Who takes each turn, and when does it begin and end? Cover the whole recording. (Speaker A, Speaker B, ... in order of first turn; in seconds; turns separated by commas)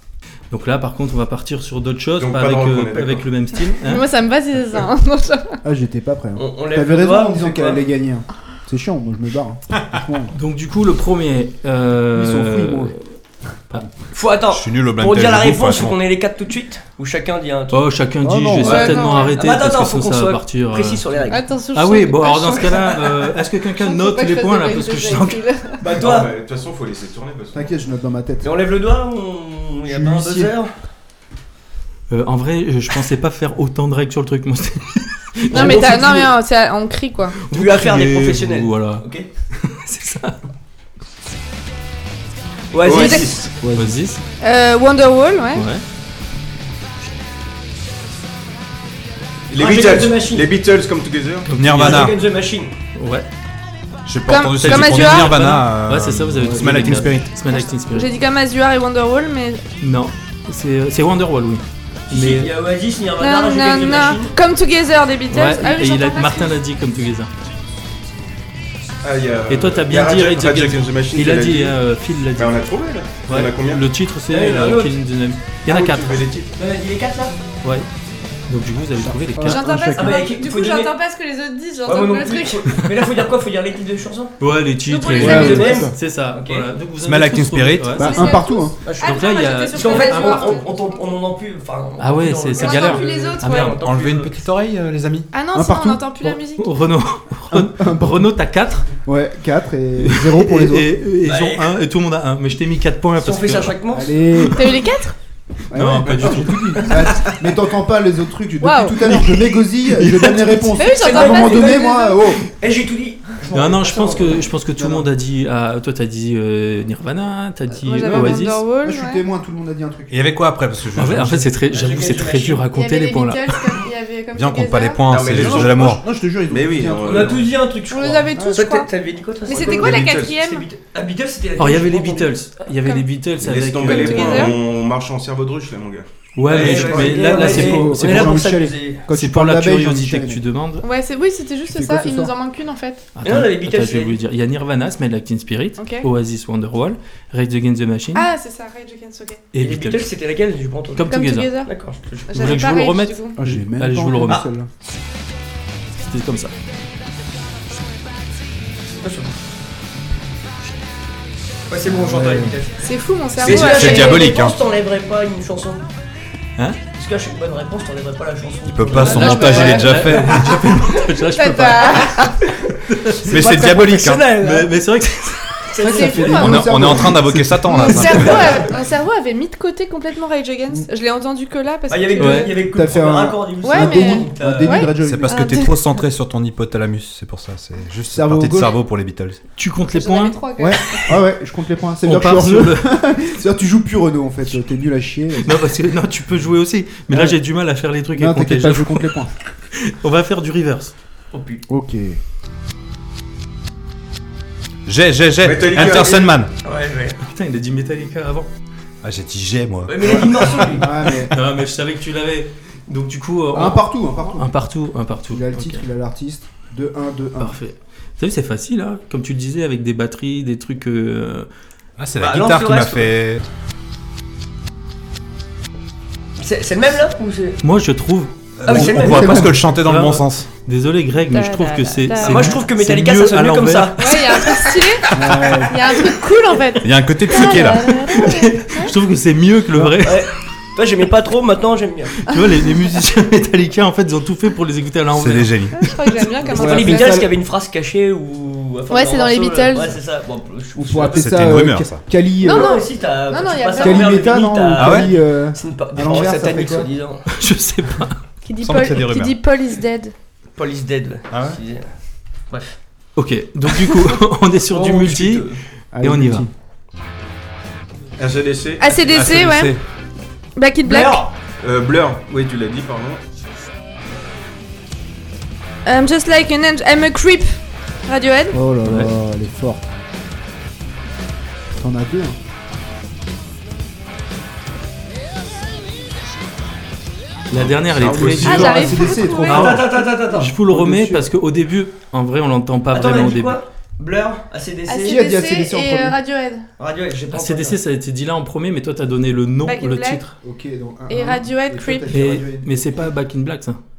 Speaker A: 0.5-4.1, Speaker B: 2.2-3.3, Speaker C: 3.8-5.6, Speaker D: 5.6-10.3, Speaker E: 6.4-7.9, Speaker A: 10.3-13.0, Speaker D: 12.1-12.9, Speaker E: 14.1-17.9, Speaker F: 14.5-16.0, Speaker A: 17.7-21.1, Speaker D: 18.2-19.0, Speaker C: 18.6-19.4, Speaker E: 18.7-21.4, Speaker C: 21.3-23.0, Speaker A: 21.7-25.4, Speaker C: 23.8-25.9, Speaker E: 25.8-26.3, Speaker B: 25.9-27.8, Speaker D: 27.5-28.5, Speaker E: 28.4-30.7, Speaker D: 29.9-30.5, Speaker A: 32.1-36.3, Speaker C: 35.5-37.4, Speaker E: 35.5-36.0, Speaker A: 37.5-40.4, Speaker E: 37.5-39.3, Speaker E: 42.7-43.5, Speaker B: 42.8-43.5, Speaker C: 42.9-43.4, Speaker D: 43.6-44.0, Speaker A: 43.7-44.2, Speaker C: 44.4-45.7, Speaker A: 45.6-45.8, Speaker B: 49.5-51.5, Speaker E: 49.5-50.5, Speaker A: 51.5-52.1, Speaker F: 51.6-52.2, Speaker E: 51.6-52.7, Speaker A: 53.0-53.3, Speaker F: 54.1-57.3, Speaker C: 54.3-55.4, Speaker A: 54.6-58.1, Speaker D: 56.4-57.1, Speaker C: 57.5-59.6, Speaker A: 59.8-62.5, Speaker E: 62.1-64.3, Speaker C: 63.2-66.6, Speaker A: 65.3-67.3, Speaker B: 69.0-71.8, Speaker A: 69.5-72.7, Speaker B: 72.4-73.9, Speaker A: 73.3-76.2, Speaker E: 74.3-75.0, Speaker B: 75.7-76.5, Speaker E: 76.5-77.4, Speaker A: 78.5-79.7, Speaker D: 79.0-80.2, Speaker C: 79.4-82.9, Speaker E: 79.9-81.0, Speaker E: 81.9-84.3, Speaker A: 84.4-88.4, Speaker C: 84.9-85.7, Speaker E: 85.1-86.7, Speaker D: 85.2-86.0, Speaker F: 87.0-88.2, Speaker D: 88.0-88.8, Speaker C: 88.0-91.1, Speaker E: 88.8-94.5, Speaker A: 89.0-90.6, Speaker A: 92.0-93.8, Speaker C: 92.6-93.8, Speaker F: 93.8-95.3, Speaker C: 95.3-96.7, Speaker D: 95.5-96.0, Speaker A: 96.2-98.9, Speaker D: 97.5-98.3, Speaker D: 99.0-100.9, Speaker A: 100.0-103.8, Speaker E: 101.2-101.8, Speaker E: 103.2-104.2, Speaker D: 103.9-104.6, Speaker C: 104.5-105.2, Speaker D: 105.7-112.4, Speaker A: 105.7-107.5, Speaker C: 108.6-109.0, Speaker A: 109.1-110.8, Speaker C: 110.8-112.1, Speaker E: 111.0-114.5, Speaker A: 113.5-118.6, Speaker D: 114.8-115.1, Speaker C: 117.7-119.2, Speaker D: 118.0-120.3, Speaker F: 120.1-121.5, Speaker A: 121.0-123.8, Speaker E: 121.7-122.7, Speaker C: 122.7-125.1, Speaker F: 124.3-126.0, Speaker B: 125.1-127.5, Speaker D: 125.3-127.4, Speaker E: 127.0-132.4, Speaker C: 127.9-128.9, Speaker D: 128.3-128.6, Speaker C: 129.4-130.7, Speaker B: 129.5-130.4, Speaker A: 131.6-134.6, Speaker B: 133.4-137.7, Speaker C: 133.8-134.6, Speaker A: 136.4-138.5, Speaker E: 136.4-139.0, Speaker D: 136.9-140.4, Speaker A: 139.1-140.8, Speaker C: 140.8-143.1, Speaker D: 141.7-142.3, Speaker A: 143.2-148.3, Speaker E: 143.2-144.2, Speaker C: 145.8-146.1, Speaker C: 148.2-149.4, Speaker A: 149.5-150.1, Speaker E: 149.6-151.1, Speaker A: 151.0-151.5, Speaker C: 151.1-151.7, Speaker E: 151.6-152.6, Speaker C: 152.3-153.4, Speaker A: 152.3-154.4, Speaker D: 153.4-154.7, Speaker A: 156.0-156.5, Speaker E: 159.0-159.4, Speaker E: 161.7-162.8, Speaker D: 161.8-162.6, Speaker C: 162.8-164.4, Speaker E: 163.4-165.8, Speaker F: 163.4-164.6, Speaker E: 166.9-169.7, Speaker F: 168.7-170.6, Speaker A: 168.9-172.3, Speaker C: 168.9-170.2, Speaker C: 170.9-172.4, Speaker E: 172.0-172.7, Speaker A: 172.9-173.3, Speaker F: 173.3-174.4, Speaker E: 173.3-174.7, Speaker A: 174.4-178.2, Speaker E: 175.7-176.5, Speaker D: 175.8-177.4, Speaker C: 175.9-176.8, Speaker F: 176.4-178.7, Speaker C: 177.7-182.5, Speaker E: 177.9-178.7, Speaker E: 181.9-184.9, Speaker A: 182.2-182.6, Speaker D: 182.7-185.7, Speaker C: 183.6-185.8, Speaker F: 185.0-189.4, Speaker D: 188.1-188.8, Speaker A: 189.6-190.4, Speaker C: 189.9-191.1, Speaker D: 190.6-195.7, Speaker A: 192.0-192.9, Speaker A: 195.4-200.9, Speaker D: 197.1-197.4, Speaker D: 198.1-199.3, Speaker E: 201.3-201.6, Speaker D: 201.7-202.2, Speaker F: 204.9-206.5, Speaker B: 205.4-206.3, Speaker E: 206.6-207.2, Speaker A: 207.2-208.5, Speaker F: 209.0-210.7, Speaker E: 209.9-211.0, Speaker D: 210.0-211.4, Speaker A: 211.2-215.8, Speaker D: 213.5-214.6, Speaker D: 215.3-217.6, Speaker A: 217.4-221.5, Speaker F: 222.0-223.5, Speaker E: 222.2-223.1, Speaker E: 226.4-227.6, Speaker A: 227.6-234.6, Speaker F: 228.6-230.5, Speaker E: 228.7-229.5, Speaker D: 229.0-229.6, Speaker C: 231.3-232.6, Speaker E: 232.2-234.2, Speaker C: 234.0-238.9, Speaker D: 235.1-235.8, Speaker F: 236.8-238.1, Speaker A: 238.1-240.3, Speaker E: 238.2-238.7, Speaker E: 240.0-242.2, Speaker A: 242.2-245.9, Speaker F: 245.1-245.8, Speaker C: 245.8-247.2, Speaker E: 246.5-251.6, Speaker D: 246.5-247.3, Speaker C: 248.9-250.0, Speaker D: 250.8-252.8, Speaker F: 251.1-252.0, Speaker C: 252.4-254.2, Speaker E: 252.4-257.3, Speaker D: 253.8-256.9, Speaker F: 254.8-255.1, Speaker A: 257.3-258.2, Speaker C: 258.4-260.1, Speaker F: 258.6-259.4, Speaker E: 260.6-261.9, Speaker F: 261.3-261.6, Speaker E: 262.5-262.8, Speaker A: 263.2-266.5, Speaker E: 264.7-265.6, Speaker D: 265.9-266.5, Speaker B: 268.2-268.8, Speaker C: 268.8-269.8, Speaker F: 268.8-269.8, Speaker C: 270.6-271.3, Speaker E: 270.8-271.3, Speaker B: 271.6-273.2, Speaker C: 275.9-278.6, Speaker D: 278.5-279.8, Speaker A: 278.8-279.1, Speaker D: 281.7-282.4, Speaker A: 287.5-293.6, Speaker B: 287.6-288.7, Speaker D: 288.0-290.0, Speaker C: 288.4-289.7, Speaker E: 289.4-290.5, Speaker D: 290.7-291.3, Speaker E: 292.9-295.2, Speaker C: 294.9-296.7, Speaker D: 295.1-296.2, Speaker E: 296.8-297.8, Speaker A: 297.3-300.4, Speaker C: 299.6-300.2, Speaker D: 300.4-303.1, Speaker C: 301.1-302.2, Speaker A: 302.1-303.8